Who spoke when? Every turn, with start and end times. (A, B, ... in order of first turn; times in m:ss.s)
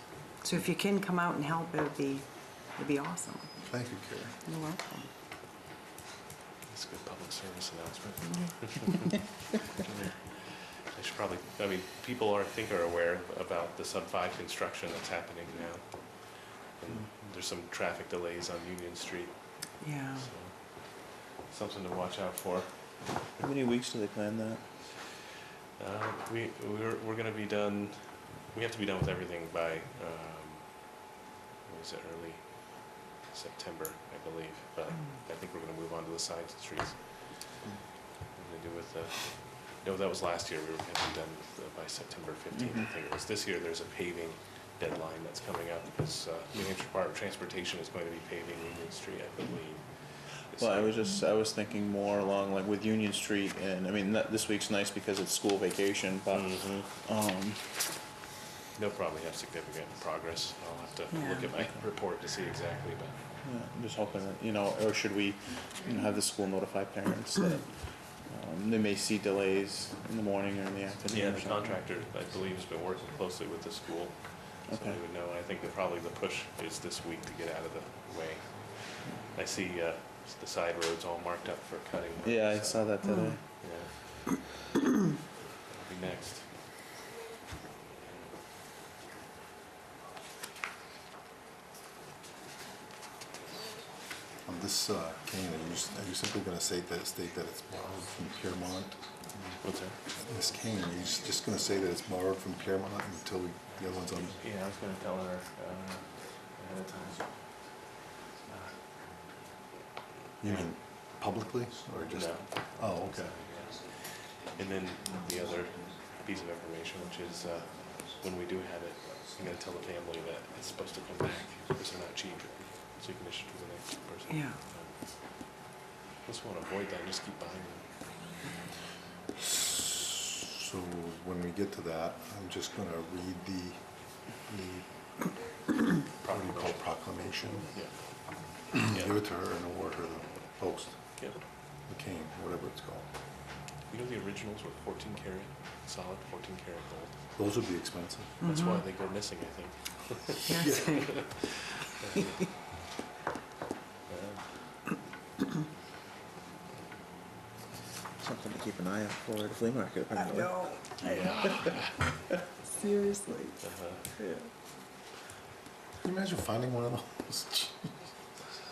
0:00.4-0:03.5 A
0:03.6-0:04.4 B
0:04.4-0:05.1 A
0:06.7-0:10.3 C
0:10.9-0:19.7 C
0:19.8-0:20.3 A
0:20.2-0:23.3 C
0:23.4-0:24.6 D
0:25.8-0:31.1 C
0:31.6-0:37.6 C
0:38.3-0:51.0 C
0:42.5-0:42.9 D
0:50.6-0:57.9 D
0:56.3-0:56.9 C
0:58.8-1:03.2 C
1:01.1-1:01.5 A
1:03.4-1:11.7 D
1:11.1-1:22.9 C
1:14.7-1:15.0 D
1:22.2-1:23.4 D
1:23.0-1:23.3 A
1:23.6-1:23.9 C
1:25.7-1:26.5 C
1:34.4-1:39.6 B
1:39.6-1:40.0 C
1:40.2-1:44.4 B
1:44.3-1:47.3 C
1:48.5-1:48.8 C
1:50.4-1:53.4 B
1:50.4-1:50.7 C
1:52.1-2:05.4 C
2:04.3-2:04.6 A
2:06.2-2:07.9 C
2:10.4-2:13.8 B
2:14.4-2:14.9 B
2:16.2-2:16.8 C
2:16.2-2:17.7 B
2:17.7-2:18.3 C
2:18.7-2:21.0 B
2:21.9-2:23.1 B
2:23.9-2:27.1 C
2:27.4-2:28.4 B
2:28.4-2:28.8 A
2:28.4-2:32.4 C
2:30.5-2:31.1 A
2:30.5-2:30.8 B
2:34.1-2:34.4 C
2:38.2-2:40.7 D
2:40.6-2:41.3 A
2:41.0-2:42.0 C
2:42.8-2:43.5 A
2:43.6-2:44.0 C
2:46.0-2:47.9 B